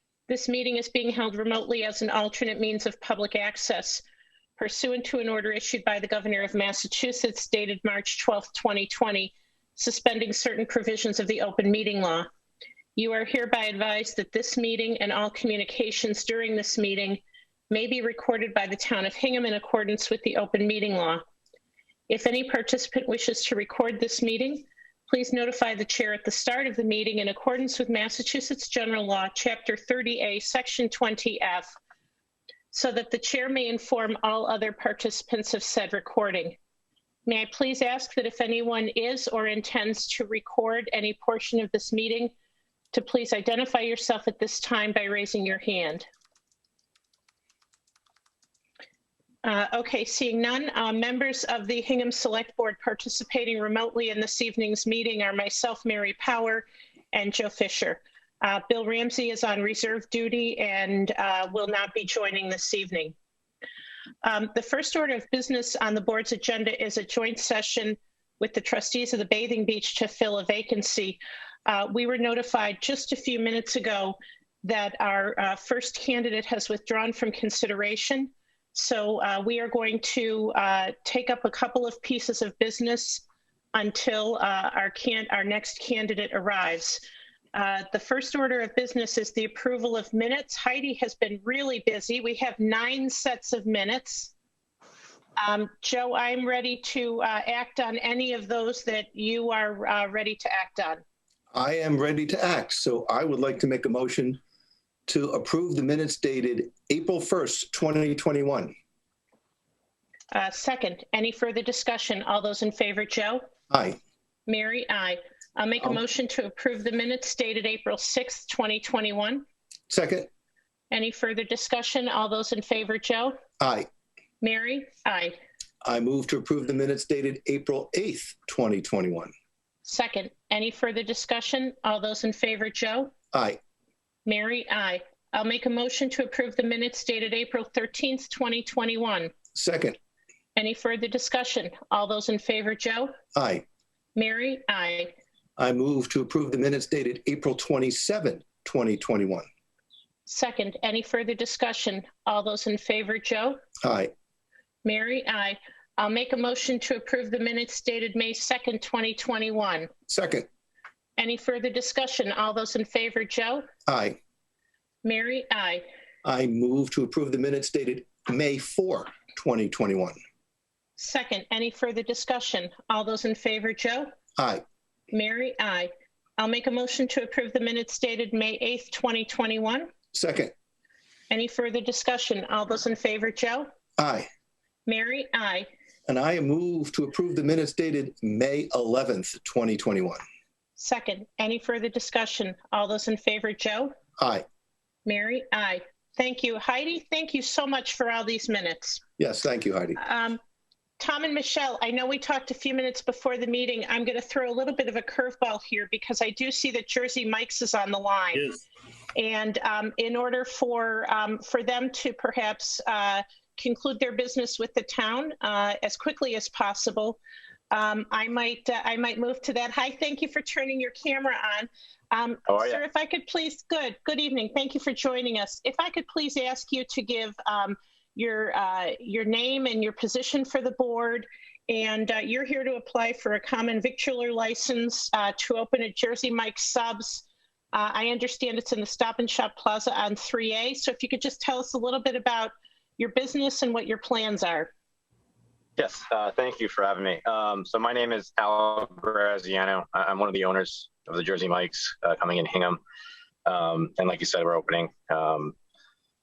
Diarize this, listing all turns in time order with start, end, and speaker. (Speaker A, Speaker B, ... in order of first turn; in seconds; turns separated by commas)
Speaker A: 0.3-4.0, Speaker A: 4.6-12.3, Speaker A: 13.0-21.2, Speaker A: 22.1-31.7, Speaker A: 32.7-36.6, Speaker A: 37.3-42.3, Speaker A: 42.9-46.1, Speaker A: 49.4-63.1, Speaker A: 64.2-87.0, Speaker A: 87.5-94.3, Speaker A: 95.4-101.0, Speaker B: 101.5-104.4, Speaker B: 105.1-108.8, Speaker A: 110.3-113.4, Speaker B: 113.7-114.0, Speaker A: 114.5-119.4, Speaker B: 119.9-120.3, Speaker A: 120.9-123.4, Speaker B: 123.6-123.9, Speaker A: 124.4-125.4, Speaker B: 125.8-129.3, Speaker A: 129.8-133.1, Speaker B: 133.3-133.6, Speaker A: 134.2-139.3, Speaker B: 139.5-140.0, Speaker A: 140.6-143.1, Speaker B: 143.3-143.6, Speaker A: 144.2-145.1, Speaker B: 145.6-149.5, Speaker A: 150.3-153.6, Speaker B: 153.8-154.1, Speaker A: 154.8-159.9, Speaker B: 160.1-160.5, Speaker A: 161.2-163.7, Speaker B: 163.9-164.2, Speaker A: 165.0-165.8, Speaker B: 166.2-170.2, Speaker A: 171.0-174.1, Speaker B: 174.4-174.6, Speaker A: 175.1-179.9, Speaker B: 180.1-180.5, Speaker A: 181.3-183.7, Speaker B: 184.0-184.3, Speaker A: 184.9-185.7, Speaker B: 186.1-190.2, Speaker A: 190.8-193.9, Speaker B: 194.2-194.4, Speaker A: 195.1-199.0, Speaker B: 199.2-200.0, Speaker A: 200.0-200.4, Speaker A: 201.0-208.6, Speaker A: 209.2-217.2, Speaker A: 217.7-244.7, Speaker C: 222.5-222.8, Speaker C: 245.8-252.8, Speaker C: 253.5-255.6